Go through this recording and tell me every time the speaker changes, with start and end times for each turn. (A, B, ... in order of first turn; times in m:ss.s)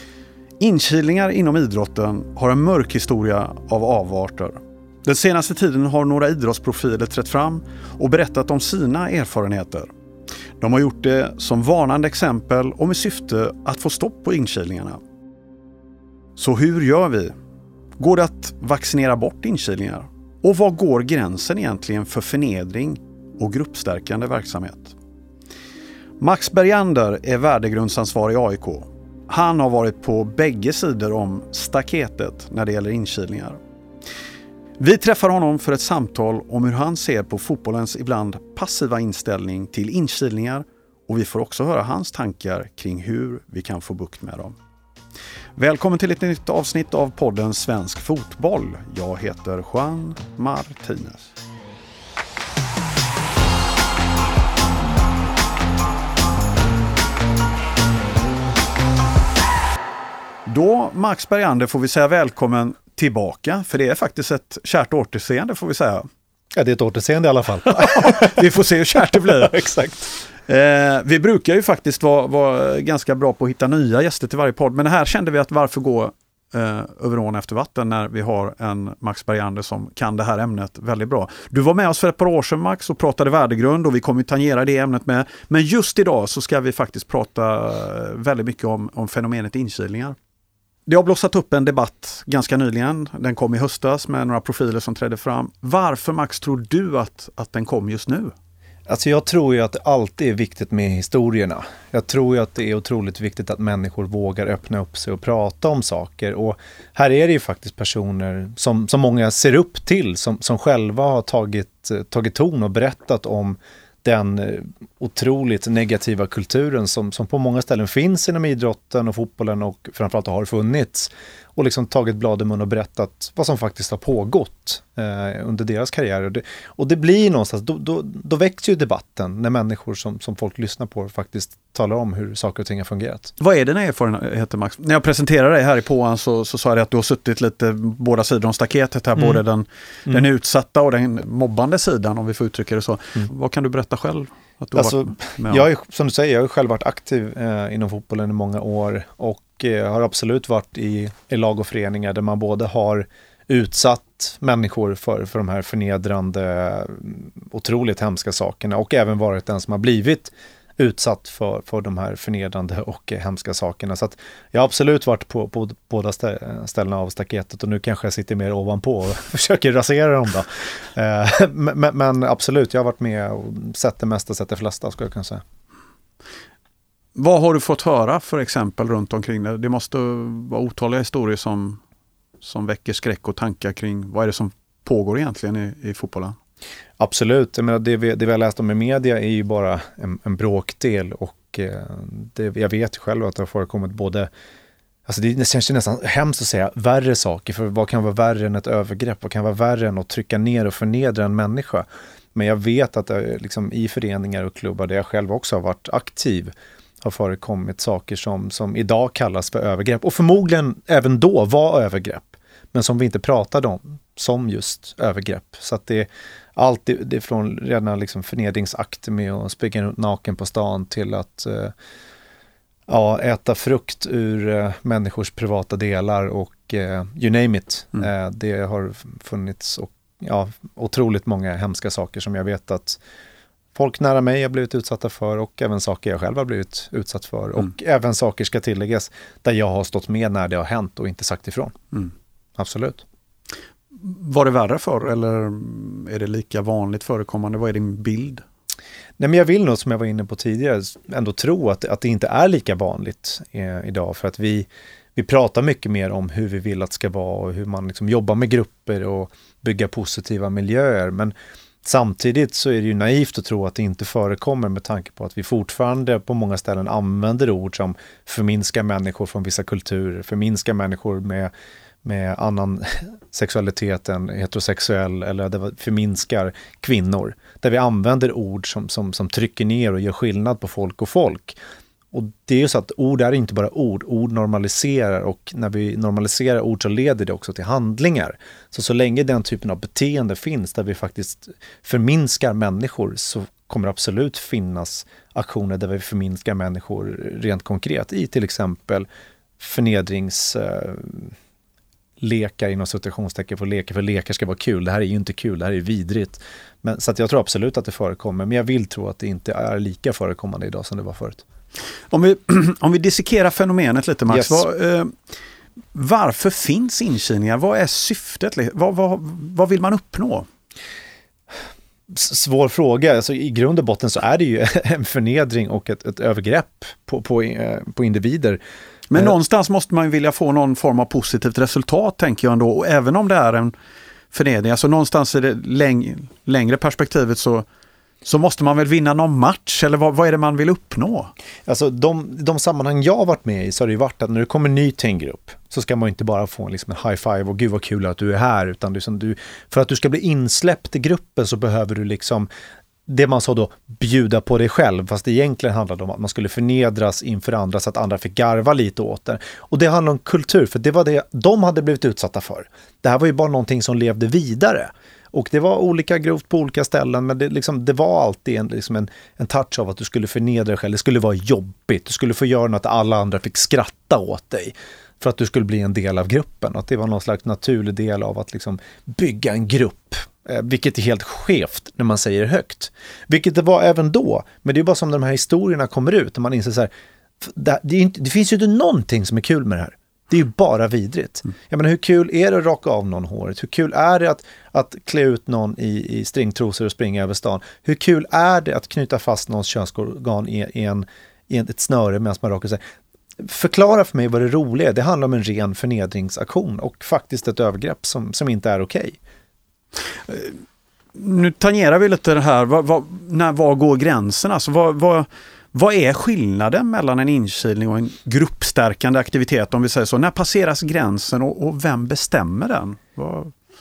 0:00.6-0:09.9 A
0:10.6-0:15.0 A
0:16.4-0:17.3 A
0:18.0-0:25.0 A
0:26.2-0:33.6 A
0:34.8-0:44.6 A
0:45.6-0:51.3 A
1:00.4-1:06.1 A
1:06.5-1:10.0 B
1:07.7-1:09.7 A
1:10.3-1:30.2 A
1:30.9-1:38.3 A
1:38.9-2:13.3 B
2:13.4-2:25.7 A
2:24.8-2:55.4 B
2:57.2-3:01.8 A
3:02.4-3:06.4 A
3:07.0-3:14.3 B
3:15.1-3:41.7 B
3:42.9-3:53.0 B
3:53.8-4:01.8 B
4:02.6-4:03.0 B
4:04.0-4:08.4 A
4:09.2-4:31.5 B
4:32.0-4:41.6 B
4:42.1-4:59.1 B
4:59.6-5:01.3 B
5:02.2-5:11.4 B
5:12.1-5:15.1 A
5:14.3-5:14.6 B
5:15.9-5:20.5 A
5:22.1-5:28.6 B
5:29.1-5:33.7 A
5:34.3-5:37.6 A
5:38.2-5:41.3 A
5:41.7-5:52.5 B
5:53.1-6:42.8 B
6:43.4-6:49.2 B
6:50.2-6:50.6 A
6:51.1-7:03.5 A